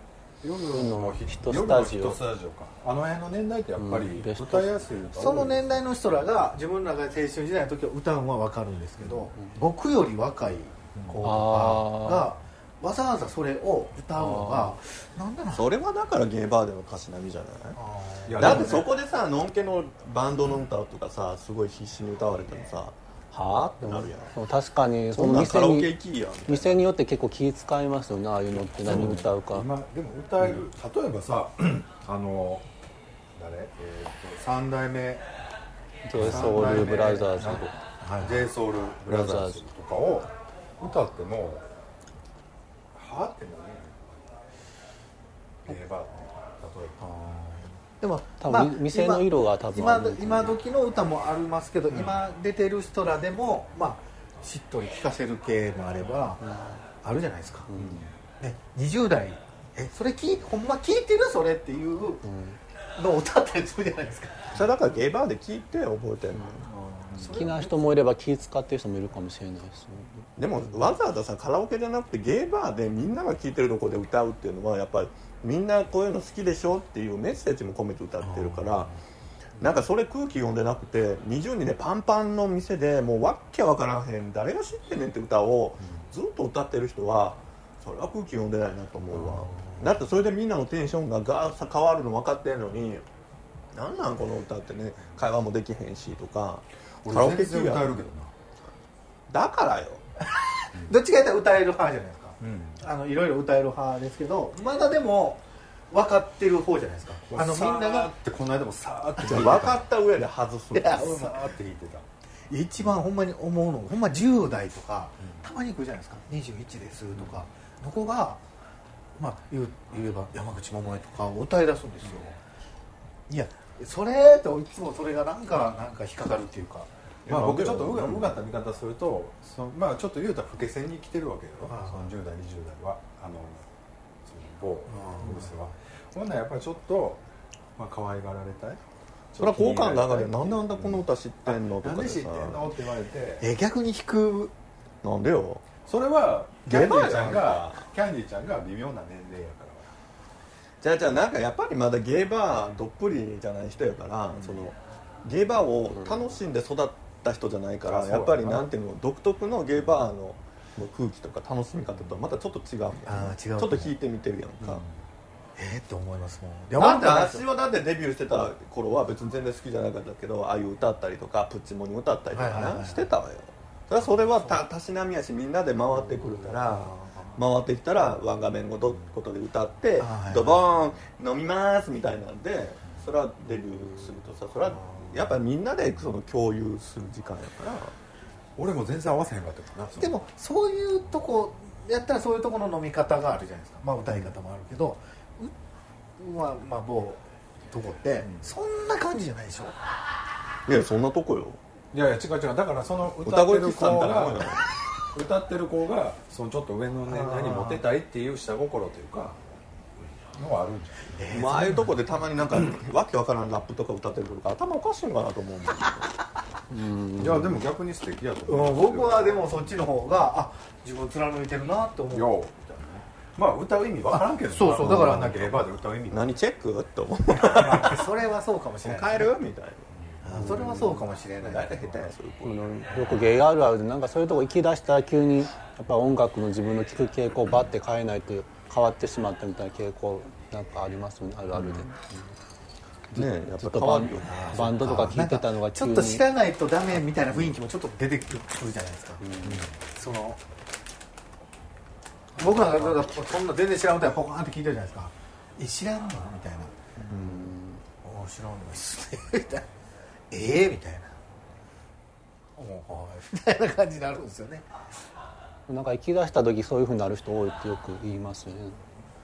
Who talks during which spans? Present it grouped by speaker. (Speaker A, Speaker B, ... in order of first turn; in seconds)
Speaker A: 0.4-5.8, 18.2-18.9, 28.8-32.6, 33.4-35.2, 36.1-41.6, 42.9-44.4, 45.6-47.1, 51.9-52.2, 57.8-58.1, 89.2-89.8, 97.0-98.3, 102.4-102.8, 107.3-109.9, 110.9-112.0, 127.2-133.6, 134.2-137.2, 137.8-138.8, 139.3-143.5, 145.8-149.9, 157.8-158.7, 164.6-164.9, 188.6-190.2, 201.9-204.6, 205.1-209.4, 210.2-211.2, 217.2-219.6, 222.1-226.3, 227.3-228.1, 230.0-230.6
Speaker B: 0.7-2.2, 3.8-4.9, 11.2-12.3, 14.2-14.8, 23.8-25.9, 26.5-29.7, 36.0-37.7, 39.0-39.6, 48.4-50.6, 56.5-56.8, 57.7-58.0, 62.2-62.6, 67.3-70.3, 216.7-217.6, 232.4-242.0, 243.1-246.2, 249.2-249.6, 257.1-257.8, 265.7-268.8
Speaker C: 5.2-15.7, 17.8-18.9, 36.2-36.6, 38.0-38.5, 47.0-56.5, 57.0-57.7, 58.4-62.2, 63.0-64.6, 66.7-67.8, 100.2-108.1, 109.2-109.6, 110.7-111.5, 112.5-118.4, 119.2-122.3, 123.3-126.9, 131.6-132.1, 134.9-135.5, 143.4-144.5, 163.1-163.9, 165.6-167.4, 172.3-173.1, 176.8-177.1, 180.0-180.6, 190.0-195.5, 196.2-199.8, 207.1-207.8, 211.1-211.9, 218.5-222.3, 224.5-225.6, 227.8-229.3, 230.2-232.1, 244.2-249.2, 249.9-250.4, 252.4-256.8, 258.0-259.7, 260.3-261.1, 262.6-264.7
Speaker D: 15.5-17.8, 18.4-24.3, 25.1-26.8, 64.5-66.7, 70.4-78.9, 79.6-93.0, 93.7-98.0, 99.3-100.0, 109.3-111.2, 127.2-128.4, 139.4-142.7, 145.0-145.6, 146.7-147.8, 150.8-164.8, 166.8-187.9, 200.7-201.6, 203.2-204.7, 211.3-216.1, 224.8-225.2, 226.1-228.1, 228.8-232.6, 241.5-241.9, 243.1-244.6